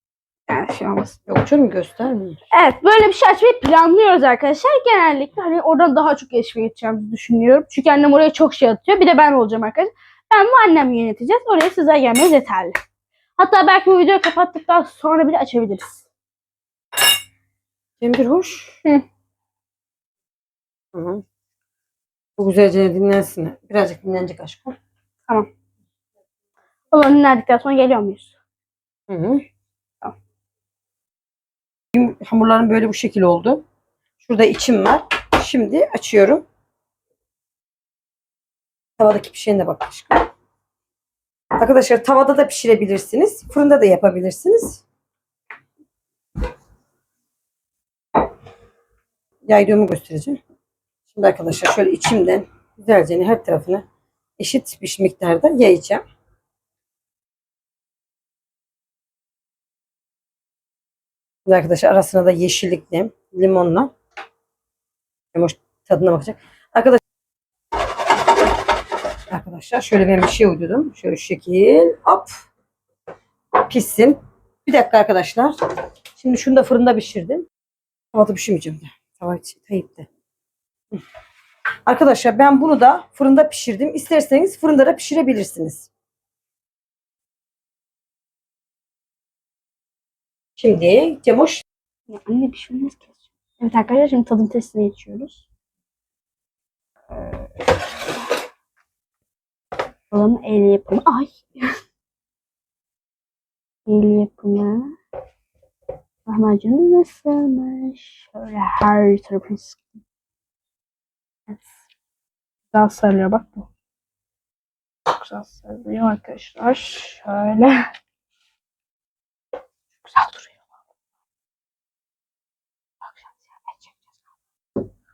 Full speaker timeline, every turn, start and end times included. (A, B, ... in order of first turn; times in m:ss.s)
0:00.5-0:01.2 A
0:01.3-0:02.4 B
0:02.5-0:12.8 A
0:13.4-0:16.0 A
0:18.0-0:18.8 B
0:20.9-0:21.2 B
0:22.4-0:24.7 B
0:26.9-0:28.3 A
0:29.1-0:29.4 B
0:31.9-0:33.6 B
0:34.2-0:36.4 B
0:39.0-0:40.3 B
0:41.6-0:44.8 B
0:49.5-0:50.4 B
0:51.1-0:53.8 B
0:54.4-0:56.0 B
1:01.4-1:03.9 B
1:05.3-1:07.0 B
1:09.3-1:12.5 B
1:13.7-1:15.6 B
1:16.2-1:17.4 B
1:18.1-1:20.1 B
1:21.8-1:25.9 B
1:30.6-1:31.6 B
1:32.1-1:35.4 A
1:40.1-1:41.7 A
1:43.8-1:44.9 A
1:46.3-1:50.0 A
1:52.7-1:53.7 A
1:55.1-1:57.8 A
2:00.0-2:00.6 A
2:03.1-2:03.9 A